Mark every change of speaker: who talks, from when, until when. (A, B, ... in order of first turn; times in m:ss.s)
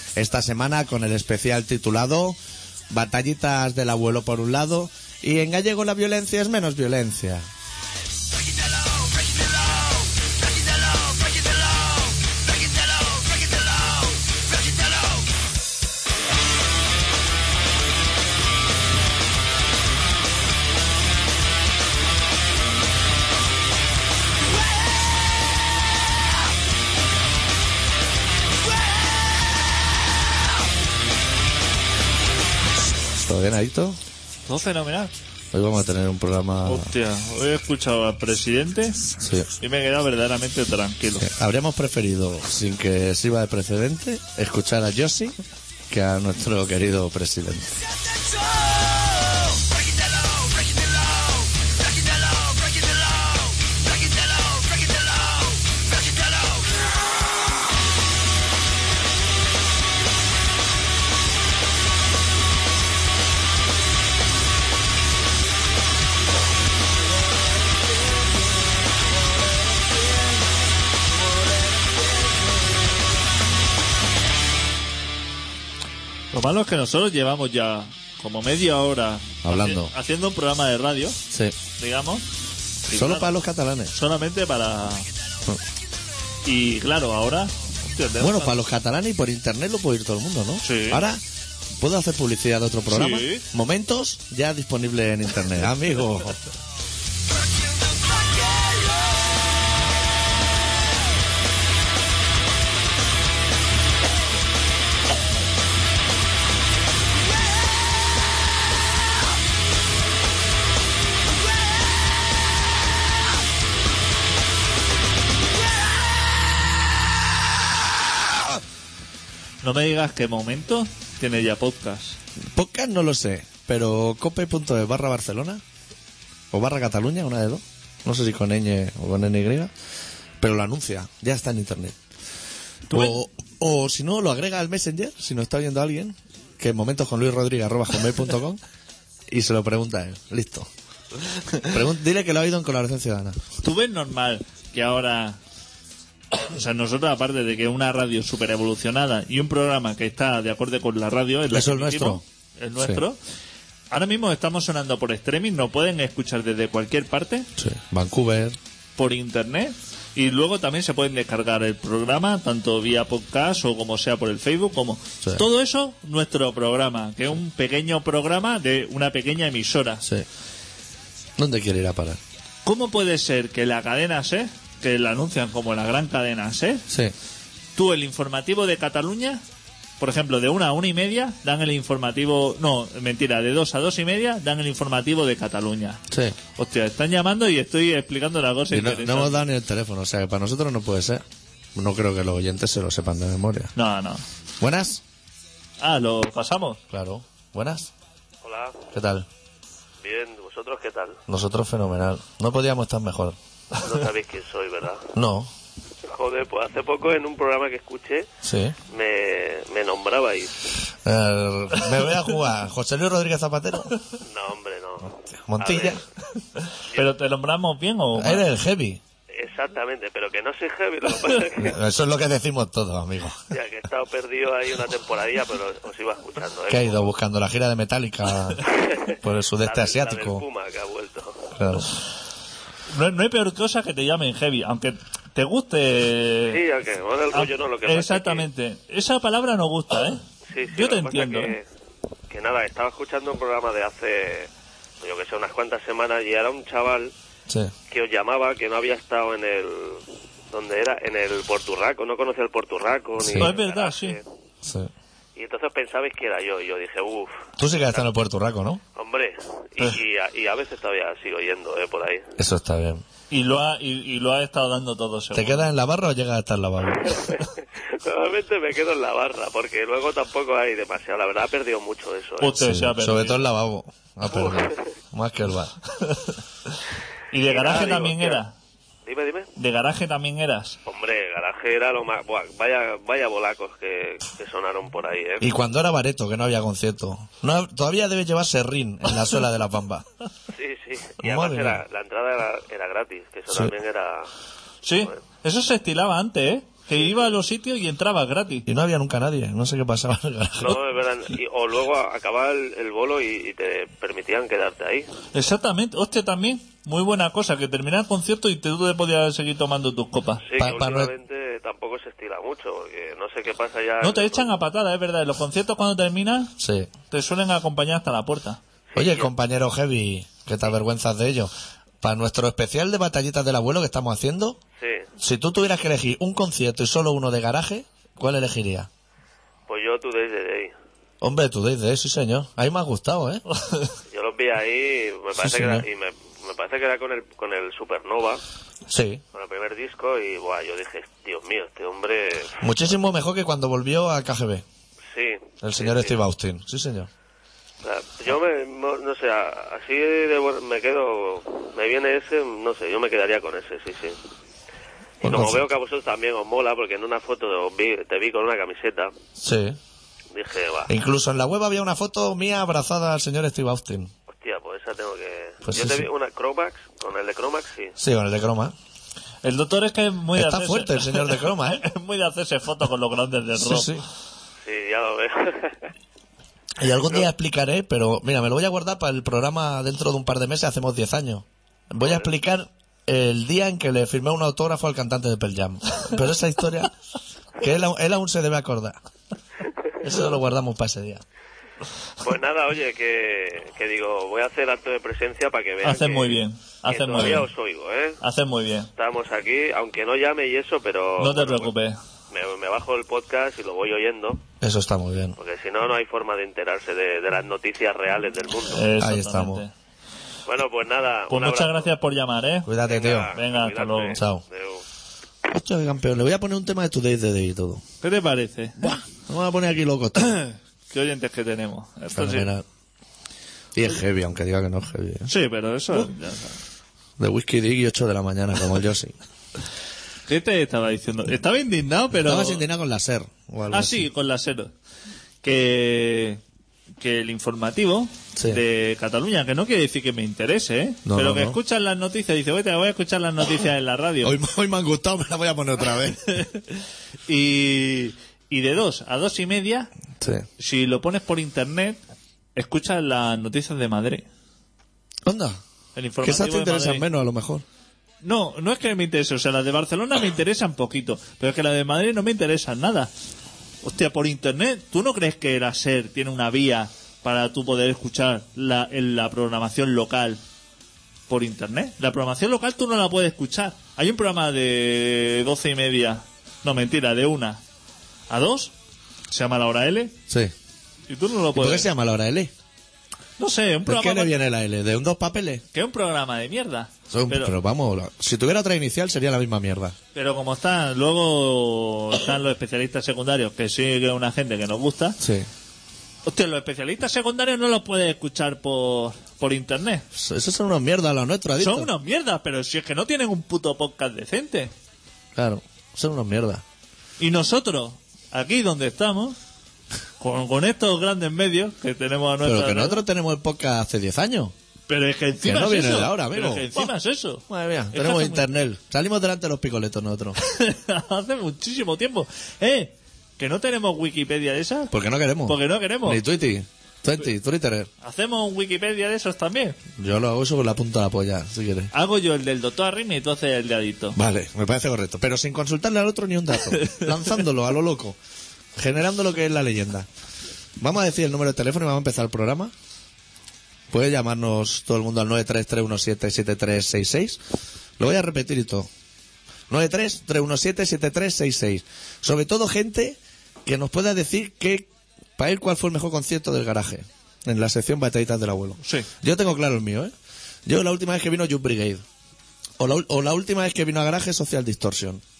0:00.2-0:02.4 A
0:02.9-0:07.5 A
0:33.1-0:34.0 A
0:34.5-0:35.1 B
0:35.5-0:36.9 A
0:36.6-0:39.1 B
0:39.2-0:39.5 A
0:39.6-0:41.3 B
0:41.2-0:45.4 A
0:45.9-0:47.8 A
1:16.3-1:21.2 B
1:19.4-1:19.9 A
1:21.3-1:21.6 A
1:21.8-1:22.3 B
1:22.9-1:23.3 B
1:22.9-1:23.9 A
1:23.9-1:25.1 B
1:26.4-1:28.5 B
1:28.2-1:31.2 A
1:30.6-1:31.0 B
1:31.8-1:36.4 A
1:32.9-1:33.4 B
1:59.6-2:02.2 B
2:02.5-2:05.6 A
2:06.5-2:09.7 A
2:10.4-2:12.0 A
2:12.9-2:18.6 A
2:19.3-2:20.7 A
2:21.7-2:23.4 A
2:23.6-2:25.4 B
2:26.4-2:33.2 B
2:31.5-2:32.2 A
2:33.9-2:37.5 B
2:37.6-2:38.6 A
2:39.0-2:50.0 B
2:51.4-2:52.2 A
2:52.6-2:56.8 B
2:56.9-2:57.1 A
2:57.8-2:59.4 B
3:00.0-3:06.0 B
3:06.1-3:06.4 A
3:06.6-3:09.4 B
3:08.7-3:11.2 A
3:11.8-3:13.7 A
3:13.8-3:14.2 B
3:14.6-3:15.0 A
3:15.8-3:16.8 B
3:16.9-3:17.9 A
3:18.4-3:18.9 C
3:18.9-3:19.3 A
3:20.0-3:21.2 C
3:21.3-3:23.4 A
3:23.8-3:25.1 C
3:25.1-3:25.5 A
3:26.1-3:28.3 C
3:28.4-3:28.8 A
3:28.9-3:30.6 C
3:31.0-3:33.9 A
3:34.2-3:36.0 C
3:35.4-3:36.0 A
3:36.6-3:38.5 B
3:38.2-3:39.0 A
3:39.3-3:41.8 C
3:41.6-3:43.4 A
3:43.5-3:47.1 C
3:46.7-3:50.4 A
3:48.6-3:51.5 C
3:51.6-3:51.9 A
3:52.9-3:56.6 B
3:56.5-3:58.5 C
3:57.3-4:00.2 B
4:00.5-4:01.6 C
4:00.7-4:01.5 B
4:02.3-4:04.5 C
4:05.0-4:07.1 C
4:07.9-4:14.2 C
4:13.2-4:13.5 A
4:13.4-4:14.2 B
4:14.6-4:14.9 A
4:15.4-4:17.4 C
4:17.6-4:18.8 A
4:19.0-4:22.2 C
4:22.4-4:23.0 A
4:23.3-4:25.7 B
4:25.3-4:27.4 A
4:27.0-4:32.6 C
4:32.4-4:33.4 B
4:32.6-4:35.8 A
4:34.5-4:34.8 C
4:35.9-4:36.3 B
4:37.3-4:38.5 B
4:37.5-4:38.4 C
4:39.1-4:39.5 C
4:39.6-4:40.8 B
4:40.9-4:45.5 C
4:45.4-4:50.0 A
4:50.5-4:54.3 C
4:51.2-4:51.8 A
4:54.8-4:58.7 B
4:58.7-5:00.8 A
5:00.6-5:05.1 C
5:05.3-5:10.4 B
5:10.4-5:14.5 C
5:10.6-5:11.1 A
5:14.0-5:16.5 B
5:16.6-5:16.9 A
5:17.1-5:18.6 B
5:18.9-5:19.3 C
5:19.0-5:21.5 A
5:22.0-5:24.6 A
5:24.8-5:25.1 C
5:25.2-5:28.9 A
5:29.7-5:30.7 C
5:31.2-5:33.4 A
5:33.6-5:33.9 B
5:34.1-5:38.4 C
5:35.4-5:35.9 A
5:38.9-5:39.2 A
5:39.3-5:42.7 C
5:42.6-5:44.6 A
5:45.1-5:46.2 C
5:45.6-5:47.1 A
5:47.8-5:54.2 C
5:55.2-5:59.1 C
5:55.2-5:55.6 A
5:59.4-5:59.8 A
6:00.3-6:00.9 C
6:00.9-6:04.1 A
6:04.3-6:08.0 C
6:05.6-6:06.1 A
6:08.0-6:08.8 A
6:09.4-6:13.9 B
6:10.4-6:11.8 A
6:13.6-6:14.0 A
6:14.6-6:15.8 C
6:16.8-6:26.9 A
6:22.0-6:22.3 C
6:27.6-6:29.0 A
6:30.0-6:31.2 A
6:32.2-6:38.2 C
6:35.8-6:37.5 B
6:38.2-6:38.9 B
6:39.0-6:41.7 C
6:41.2-6:42.0 B
6:42.3-6:44.4 C
6:44.6-6:45.4 A
6:45.4-6:48.8 C
6:48.7-6:49.7 B
6:49.0-6:49.6 A
6:50.5-6:51.9 C
6:51.3-6:52.7 B
6:52.7-6:53.3 A
6:52.9-6:54.8 C
6:53.3-6:54.2 B
6:54.1-6:54.4 A
6:55.5-6:57.8 A
6:58.0-6:58.8 B
6:58.8-7:00.4 A
7:00.9-7:02.5 B
7:02.2-7:02.6 A
7:03.8-7:05.3 A
7:05.3-7:06.6 B
7:07.2-7:09.1 A
7:10.3-7:12.6 B
7:12.1-7:14.1 A
7:13.7-7:14.7 B
7:15.4-7:16.4 B
7:17.0-7:24.4 B
7:18.4-7:18.6 A
7:21.1-7:21.6 A
7:24.2-7:26.3 A
7:26.4-7:26.8 B
7:27.3-7:29.9 B
7:30.2-7:30.5 A
7:30.6-7:32.0 B
7:32.6-7:34.2 B
7:35.3-7:35.6 A
7:36.0-7:37.1 B
7:36.2-7:37.6 A
7:38.2-7:43.1 B
7:43.8-7:50.4 B
7:51.3-7:57.6 B
7:58.3-7:58.7 B
7:59.3-8:00.2 B
8:01.1-8:01.9 B
8:01.5-8:02.5 A
8:03.4-8:04.3 B
8:03.9-8:05.6 A
8:05.7-8:07.6 B
8:07.1-8:10.0 A
8:10.2-8:15.2 B
8:15.2-8:15.5 A
8:16.3-8:20.0 B
8:20.1-8:21.9 A
8:21.6-8:24.7 B
8:25.4-8:26.6 A
8:27.2-8:29.4 B
8:30.2-8:33.0 B
8:32.4-8:34.5 A
8:34.9-8:38.5 B
8:35.4-8:36.9 A
8:37.5-8:40.4 A
8:40.4-8:44.9 B
8:44.9-8:47.9 A
8:45.5-8:46.2 B
8:48.0-8:49.8 B
8:50.0-8:51.9 A
8:51.9-8:54.2 B
8:54.2-8:58.2 A
8:58.8-9:00.1 A
9:00.8-9:02.7 A
9:03.9-9:07.4 A
9:08.0-9:08.9 A
9:09.7-9:20.1 A
9:18.8-9:19.1 B
9:20.7-9:22.0 A
9:22.8-9:25.2 A